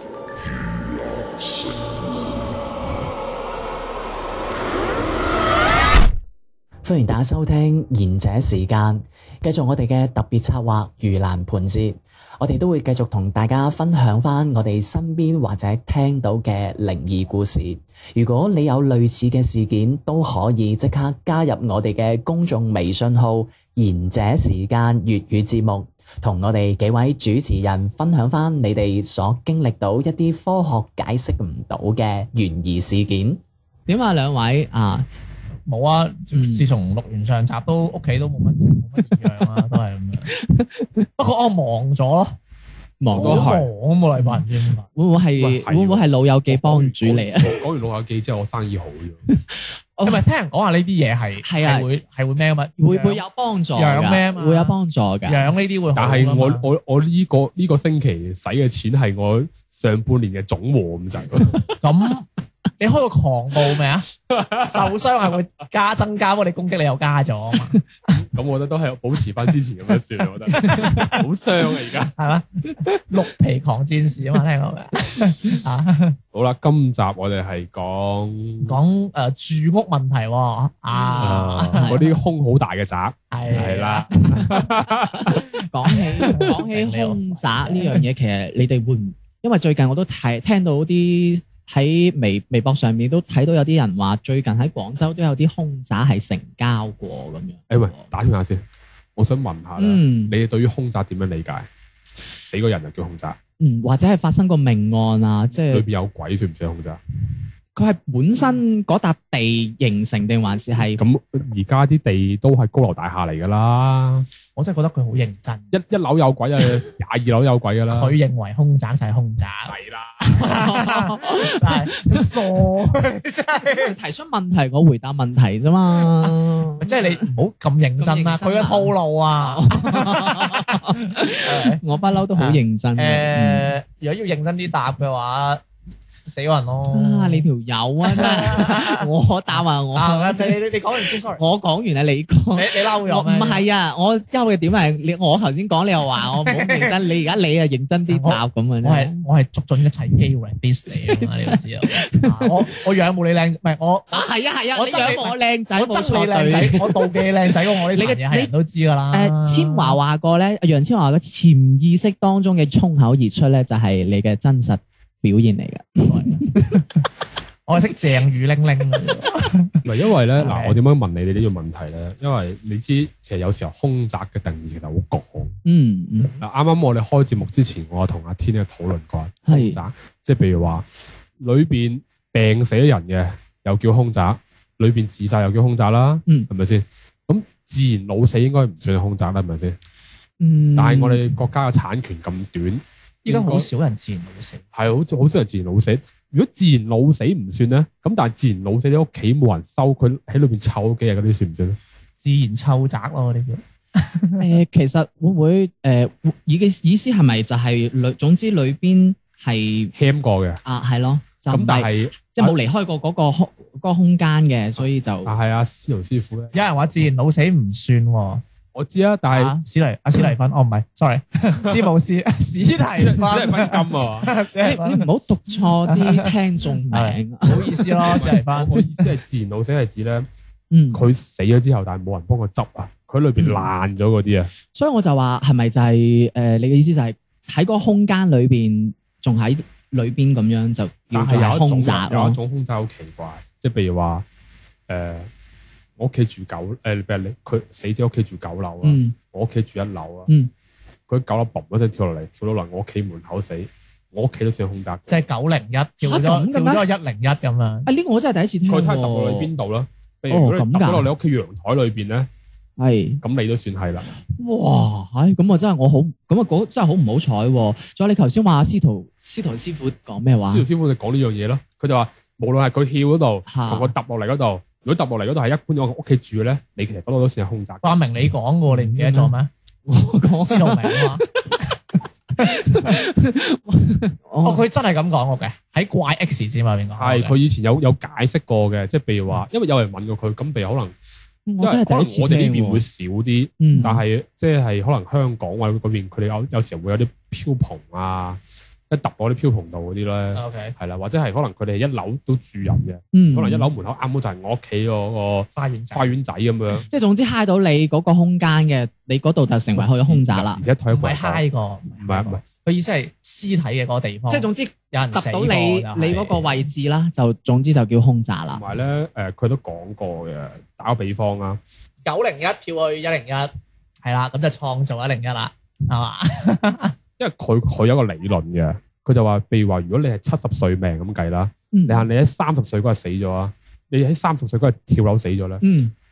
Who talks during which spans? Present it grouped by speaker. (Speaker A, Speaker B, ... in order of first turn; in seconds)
Speaker A: 6.8-33.4
Speaker B: 33.9-35.1, 36.3-36.7, 39.1-39.4, 40.3-41.1, 43.0-43.6, 44.2-47.6, 49.3-50.2, 51.4-51.9, 52.8-55.5, 70.5-71.2, 80.9-82.2, 84.1-84.7, 85.3-98.1, 99.8-100.3, 103.6-105.8, 107.8-111.0, 120.3-122.7, 123.7-127.3, 128.0-133.7, 136.9-149.2, 150.9-152.8, 154.1-158.5, 159.1-166.8, 175.7-176.3, 179.5-179.8, 190.4-191.3, 204.4-209.9, 210.7-215.3, 224.6-228.3, 230.7-231.0, 233.4-233.7, 234.7-242.4, 248.8-249.2, 256.0-256.9, 257.9-259.5, 260.3-261.1, 262.8-263.2, 264.3-270.7, 273.5-273.9, 278.7-279.3, 279.9-281.7, 282.4-284.6, 291.5-292.8, 293.6-294.0, 303.1-303.7, 306.9-310.6, 314.3-318.6, 331.7-332.1, 335.6-335.9
Speaker C: 35.7-40.3, 41.2-42.3, 43.2-44.9, 50.1-53.2, 53.8-54.8, 55.3-56.7, 61.8-62.3, 62.8-64.1, 64.7-67.8, 70.5-71.2, 72.2-76.2, 78.7-82.0, 83.3-84.1, 86.2-88.0, 114.5-115.7, 117.9-119.7, 120.3-124.0, 126.0-131.8, 132.3-135.6, 136.3-137.5, 138.0-141.4, 142.6-143.6, 146.2-147.0, 148.1-160.0, 166.1-166.8, 167.7-169.8, 170.4-170.8, 193.3-194.6, 202.2-204.5, 216.5-218.4, 219.3-225.1, 225.9-226.2, 226.9-228.8, 255.1-257.9, 277.8-279.5, 280.4-281.2, 282.4-283.0, 284.4-287.4, 300.3-300.8, 305.6-306.2, 310.9-316.6, 322.1-323.5, 324.0-326.9
Speaker D: 43.1-43.7, 45.4-49.2, 55.9-61.8, 64.3-64.9, 68.1-72.1, 76.3-78.8, 81.2-85.4, 97.7-98.6, 99.2-101.7, 102.4-103.4, 105.7-107.0, 111.0-114.3, 115.7-118.2, 119.7-120.3, 169.8-175.6, 176.4-180.9, 181.4-189.8, 190.8-193.7, 194.7-201.8, 209.9-210.6, 211.5-212.6, 215.2-216.9, 218.7-219.6, 223.0-224.3, 228.2-230.3, 230.9-234.5, 241.1-244.2, 244.9-245.3, 246.0-250.3, 251.1-255.2, 258.7-262.3, 263.2-264.1, 270.5-277.8, 287.0-290.9, 291.6-298.4, 298.9-306.9, 309.8-311.4, 312.0-312.4, 318.5-321.6, 327.2-335.6